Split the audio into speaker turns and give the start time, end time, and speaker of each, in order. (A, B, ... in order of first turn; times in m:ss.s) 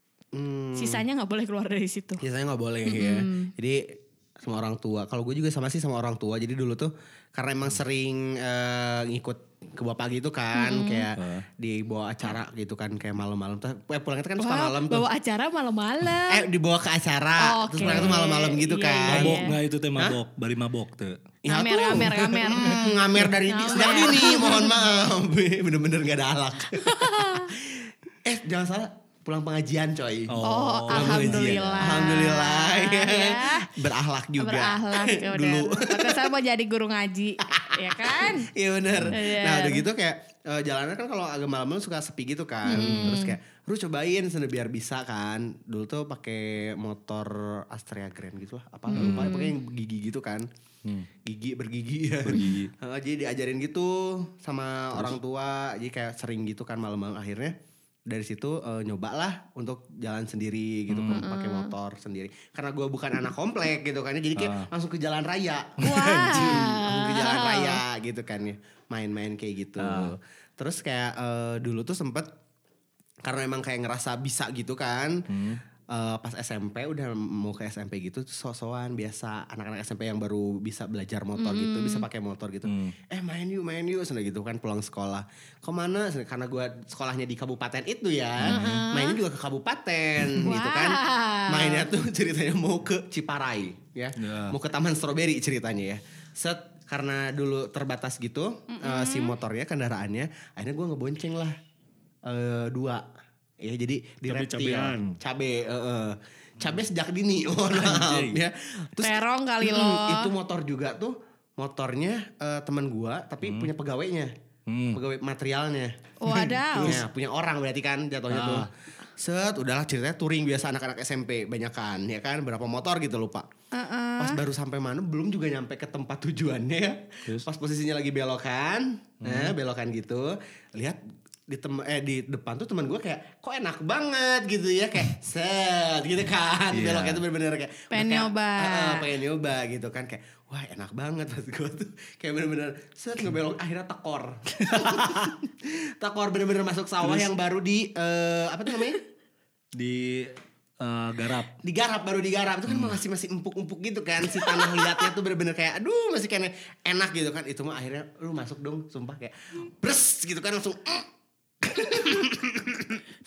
0:00.3-0:01.0 A
0:00.8-0:02.2 B
0:02.2-0:15.1 A
0:02.8-0:03.5 B
0:10.5-0:11.1 B
0:11.2-0:11.4 C
0:14.4-0:16.5 B
0:16.3-0:20.2 A
0:17.4-0:19.6 B
0:17.8-0:18.2 C
0:19.1-0:21.2 C
0:21.4-0:30.3 A
0:21.5-0:24.8 B
0:26.7-0:27.5 B
0:30.3-0:32.1 C
0:30.4-0:33.8 B
0:30.9-0:36.3 A
0:34.4-0:38.5 B
0:37.5-0:50.5 A
0:39.1-0:39.8 B
0:42.6-0:43.4 B
0:48.9-0:49.5 B
0:48.9-0:49.3 C
0:51.2-0:57.5 A
0:52.2-0:52.7 C
0:58.1-1:12.3 A
1:00.9-1:01.2 C
1:01.1-1:01.7 B
1:04.4-1:04.7 C
1:05.8-1:07.8 B
1:09.8-1:10.1 C
1:13.2-1:15.2 A
1:15.3-1:15.6 C
1:15.9-1:41.6 A
1:21.4-1:22.0 B
1:22.6-1:23.0 C
1:28.4-1:28.9 C
1:28.4-1:29.2 B
1:30.4-1:31.9 B
1:34.2-1:34.6 C
1:38.7-1:39.4 B
1:42.2-1:43.0 A
1:43.6-1:54.3 A
1:44.2-1:45.2 C
1:47.7-1:48.4 C
1:49.0-1:50.3 B
1:53.4-1:53.7 C
1:54.7-1:55.0 C
1:54.9-2:03.5 A
1:56.2-1:57.0 B
1:58.3-1:58.7 C
2:03.7-2:04.4 B
2:04.2-2:29.0 A
2:09.2-2:09.5 C
2:16.7-2:17.2 C
2:17.9-2:19.1 B
2:24.6-2:25.3 C
2:27.0-2:27.3 C
2:29.8-2:31.5 C
2:31.6-2:41.1 A
2:32.7-2:33.0 C
2:41.6-2:43.0 A